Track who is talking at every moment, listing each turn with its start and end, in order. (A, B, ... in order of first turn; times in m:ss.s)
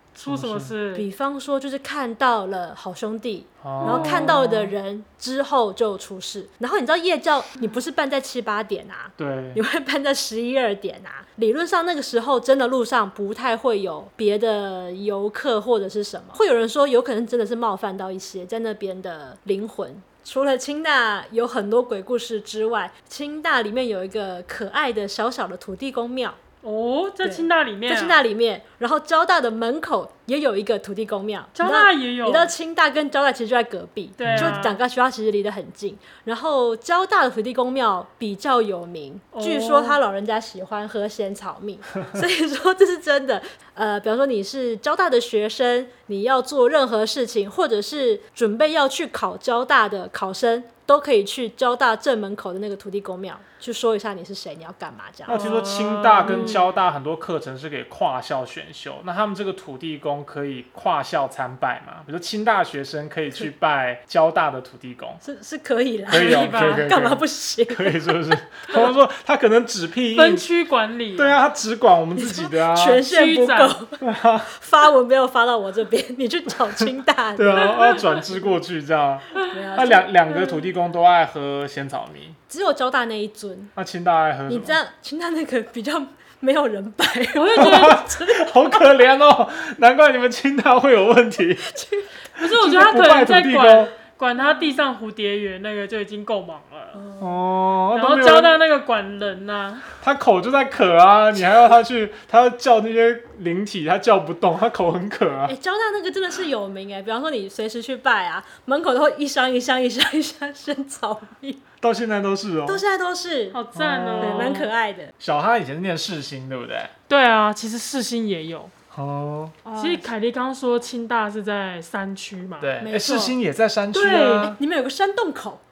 0:00.2-0:01.1 A
0:00.3-0:00.7 B
0:00.9-0:26.4 C
0:03.6-0:04.7 B
0:03.8-0:04.6 A
0:09.2-0:09.6 B
0:26.6-0:28.2 A
0:27.2-0:55.4 C
0:31.6-0:32.5 A
0:34.2-0:34.8 A
0:34.2-0:34.6 B
0:39.3-0:40.0 A
0:55.3-1:05.2 B
0:55.3-0:56.7 A
1:05.2-1:08.1 C
1:06.1-1:10.5 B
1:06.1-1:07.0 A
1:10.1-1:11.4 A
1:11.2-1:13.1 B
1:12.2-1:18.0 C
1:13.0-1:13.8 A
1:14.0-1:14.5 B
1:17.4-1:22.4 B
1:17.6-1:18.0 A
1:19.5-1:20.1 C
1:20.3-1:20.7 A
1:22.5-1:23.7 C
1:23.8-1:24.8 B
1:24.5-1:28.8 C
1:27.4-1:28.0 A
1:27.6-1:31.7 B
1:31.7-1:32.2 C
1:32.4-1:37.0 A
1:32.4-1:33.9 B
1:34.4-1:34.8 C
1:36.9-1:37.4 C
1:37.2-1:38.6 B
1:37.9-1:39.9 A
1:40.0-1:45.5 B
1:45.5-1:51.6 C
1:51.8-1:52.8 B
1:52.7-1:53.6 C
1:53.5-1:54.7 A
1:53.7-1:54.6 B
1:54.2-1:55.1 C
1:55.2-1:56.9 B
1:57.1-1:58.7 A
1:58.9-1:59.6 B
1:59.6-2:00.1 C
1:59.8-2:02.7 A
2:02.6-2:04.6 B
2:02.8-2:03.4 C
2:03.9-2:05.6 C
2:04.0-2:04.5 A